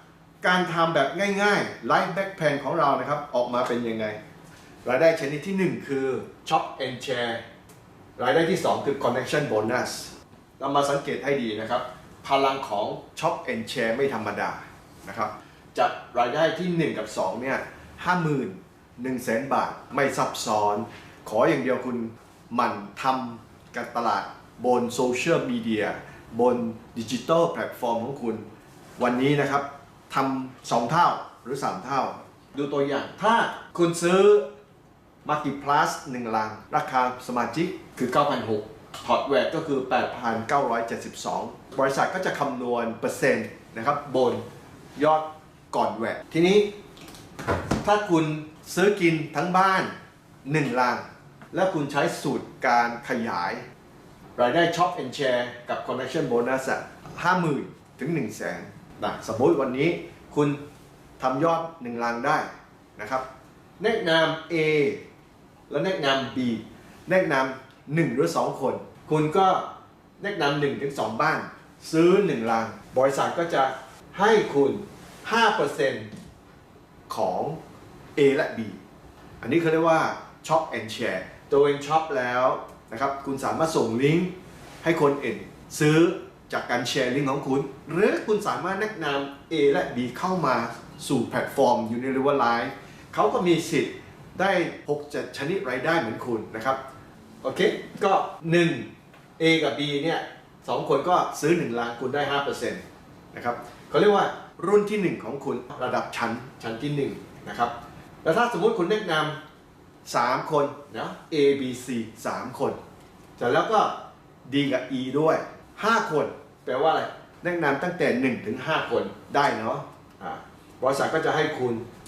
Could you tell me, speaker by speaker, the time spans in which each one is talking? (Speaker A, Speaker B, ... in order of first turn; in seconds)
Speaker A: 0.4-4.2, 4.8-7.4, 8.2-28.4, 29.0-34.5, 35.2-44.4, 45.0-46.7, 47.8-49.9, 50.5-53.6, 54.4-60.6, 61.2-63.2, 63.8-65.0, 65.7-69.7, 70.2-76.1, 77.1-77.6, 78.2-78.8, 79.4-96.8, 97.4-107.7, 108.2-109.4, 110.0-112.8, 113.4-121.8